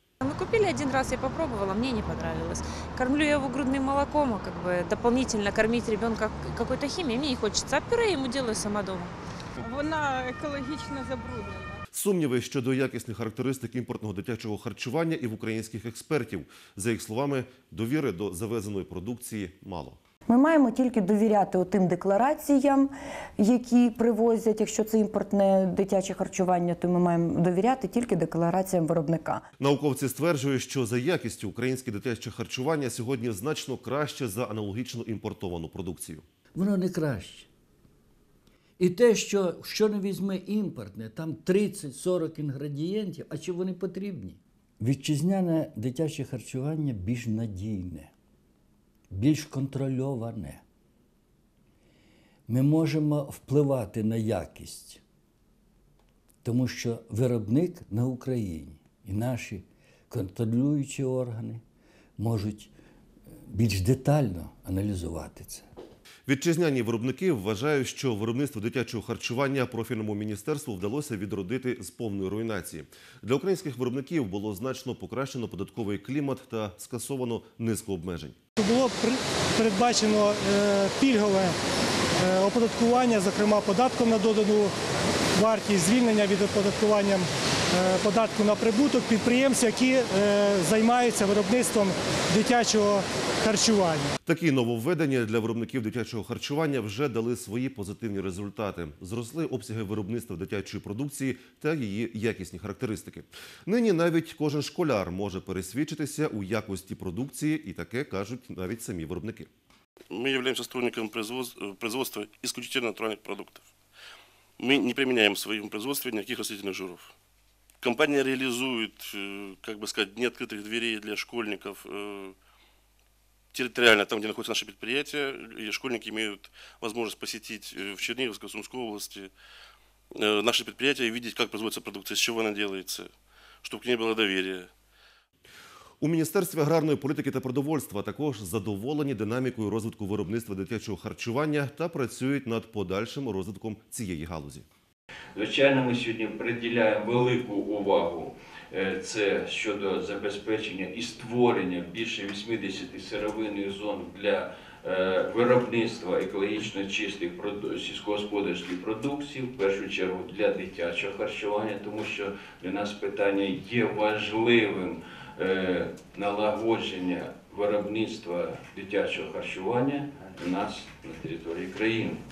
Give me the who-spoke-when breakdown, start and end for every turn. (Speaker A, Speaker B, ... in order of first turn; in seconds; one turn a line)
Speaker A: 0.2-9.1
Speaker B: 9.6-11.8
Speaker C: 11.9-20.0
Speaker D: 20.3-29.4
Speaker C: 29.6-36.2
Speaker E: 36.5-37.5
Speaker E: 38.8-48.1
Speaker E: 49.1-50.6
Speaker E: 52.5-55.0
Speaker E: 56.4-61.6
Speaker E: 62.2-62.7
Speaker E: 63.5-65.7
Speaker C: 66.3-78.3
Speaker F: 78.6-81.5
Speaker F: 82.2-84.7
Speaker F: 85.3-94.1
Speaker C: 94.2-109.5
Speaker G: 110.1-113.7
Speaker G: 114.6-117.1
Speaker G: 117.8-122.3
Speaker G: 123.5-129.3
Speaker G: 130.1-133.1
Speaker G: 133.6-134.7
Speaker C: 136.0-144.7
Speaker H: 145.3-172.2